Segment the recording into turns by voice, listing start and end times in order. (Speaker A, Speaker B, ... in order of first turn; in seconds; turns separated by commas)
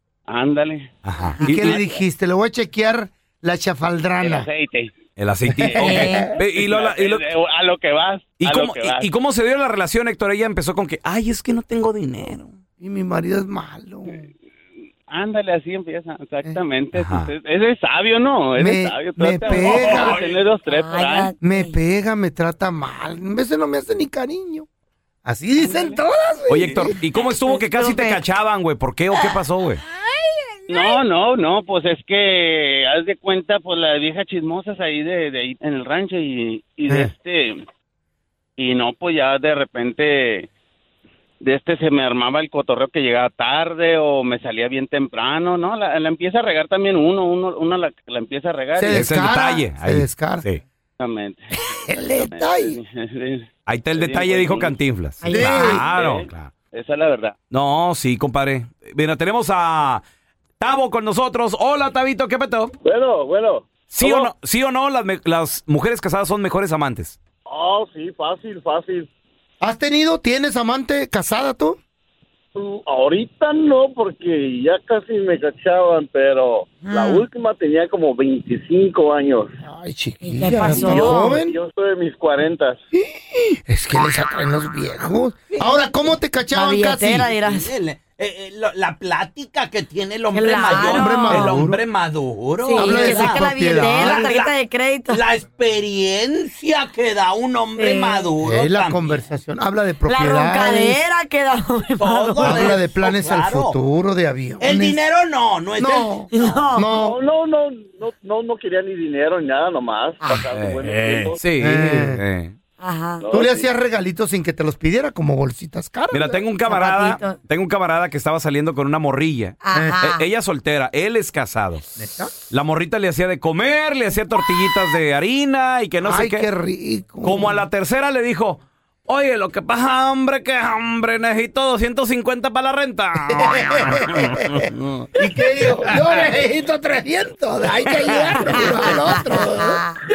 Speaker A: 0.3-0.9, Speaker B: 1.0-1.8, Speaker C: 1.3-1.9, Speaker D: 1.4-4.5, Speaker A: 4.2-4.9, Speaker B: 5.2-7.3, Speaker C: 5.8-6.4, Speaker D: 5.9-6.2, Speaker A: 6.4-9.1, Speaker B: 8.4-12.6, Speaker D: 12.8-14.2, Speaker A: 15.1-21.3, Speaker B: 16.9-17.3, Speaker D: 18.6-20.2, Speaker C: 20.7-21.8, Speaker D: 21.4-24.7, Speaker D: 25.2-27.0, Speaker A: 25.6-26.0, Speaker B: 26.5-29.8, Speaker C: 27.5-28.2, Speaker A: 30.7-37.6, Speaker A: 38.6-40.5, Speaker A: 41.4-49.1, Speaker D: 48.8-50.4, Speaker B: 48.9-50.6, Speaker A: 51.0-54.8, Speaker D: 51.8-52.8, Speaker B: 53.7-56.5, Speaker C: 55.2-55.8, Speaker D: 55.3-55.9, Speaker A: 55.9-57.4, Speaker B: 57.5-60.0, Speaker B: 60.6-62.7, Speaker E: 62.9-64.3, Speaker B: 63.9-67.2, Speaker E: 67.5-69.1, Speaker D: 69.6-71.8, Speaker E: 72.6-79.5, Speaker C: 76.8-77.2, Speaker D: 79.6-81.6, Speaker C: 80.2-81.4, Speaker E: 81.3-82.8, Speaker D: 83.0-87.3, Speaker C: 86.5-87.7, Speaker F: 87.4-94.5, Speaker C: 90.3-91.5, Speaker D: 90.7-91.8, Speaker C: 92.6-95.2, Speaker D: 92.7-94.3, Speaker F: 95.1-99.2, Speaker C: 97.8-98.3, Speaker D: 98.4-101.0, Speaker C: 100.0-102.8, Speaker F: 102.0-103.8, Speaker D: 102.4-105.0, Speaker F: 104.6-106.6, Speaker D: 105.8-107.2, Speaker C: 106.3-106.9, Speaker E: 106.9-111.4, Speaker B: 110.5-112.5, Speaker D: 111.6-112.2, Speaker C: 112.8-113.2, Speaker E: 113.2-113.7, Speaker D: 113.3-116.4, Speaker B: 116.1-121.8, Speaker C: 116.7-117.4, Speaker C: 119.6-120.3, Speaker D: 119.7-120.0, Speaker D: 122.0-122.3, Speaker B: 122.5-126.5, Speaker D: 126.0-127.5, Speaker B: 127.2-135.1, Speaker D: 133.3-134.4, Speaker D: 135.2-139.8, Speaker B: 138.1-138.6, Speaker C: 138.4-140.0